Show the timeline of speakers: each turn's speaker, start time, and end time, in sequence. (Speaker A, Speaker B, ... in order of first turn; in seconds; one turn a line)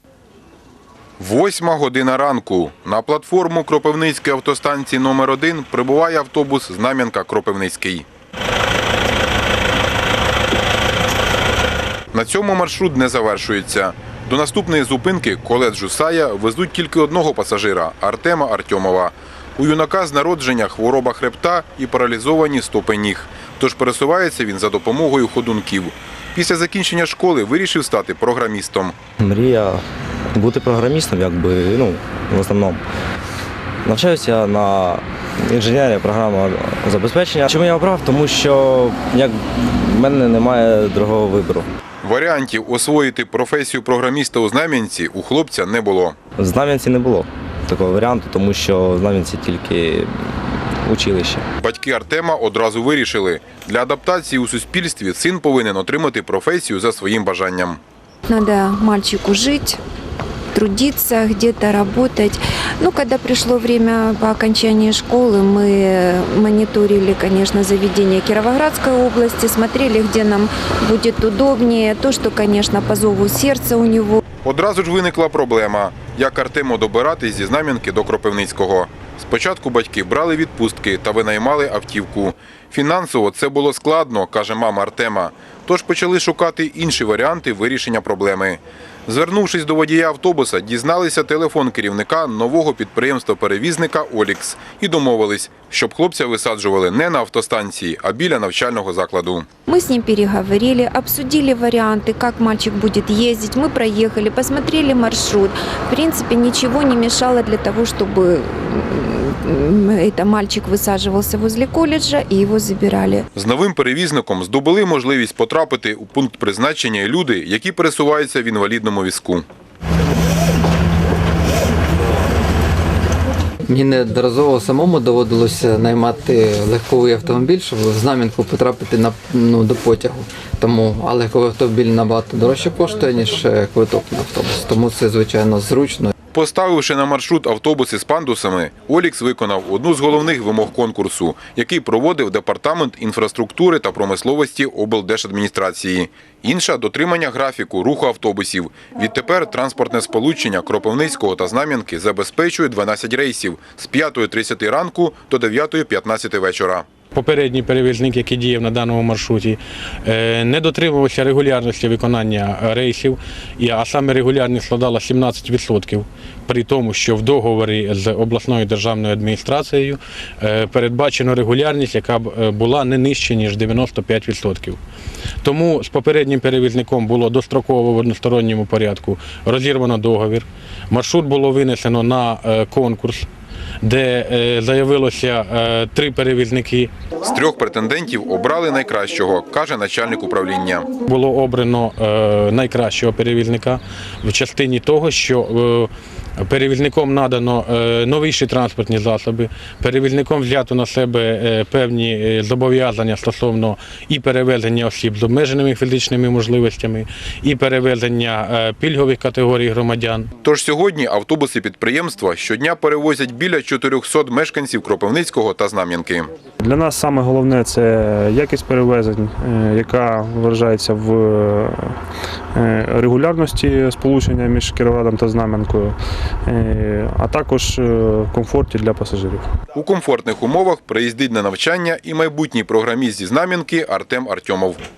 Speaker A: 1.2-8.1
Speaker A: 12.1-29.0
Speaker B: 29.2-32.8
Speaker B: 33.9-41.7
Speaker A: 42.0-46.2
Speaker B: 46.4-51.5
Speaker A: 51.6-57.8
Speaker C: 58.3-59.8
Speaker C: 60.5-74.2
Speaker A: 74.4-99.5
Speaker C: 99.7-113.3
Speaker A: 113.4-119.5
Speaker D: 123.7-136.1
Speaker A: 136.3-156.9
Speaker E: 157.1-174.8
Speaker E: 175.4-183.3
Speaker E: 183.8-186.9
Speaker A: 187.3-190.9
Speaker E: 191.1-210.3
Speaker A: 210.4-216.3
Speaker F: 216.6-221.9
Speaker F: 222.6-229.5
Speaker A: 229.8-234.8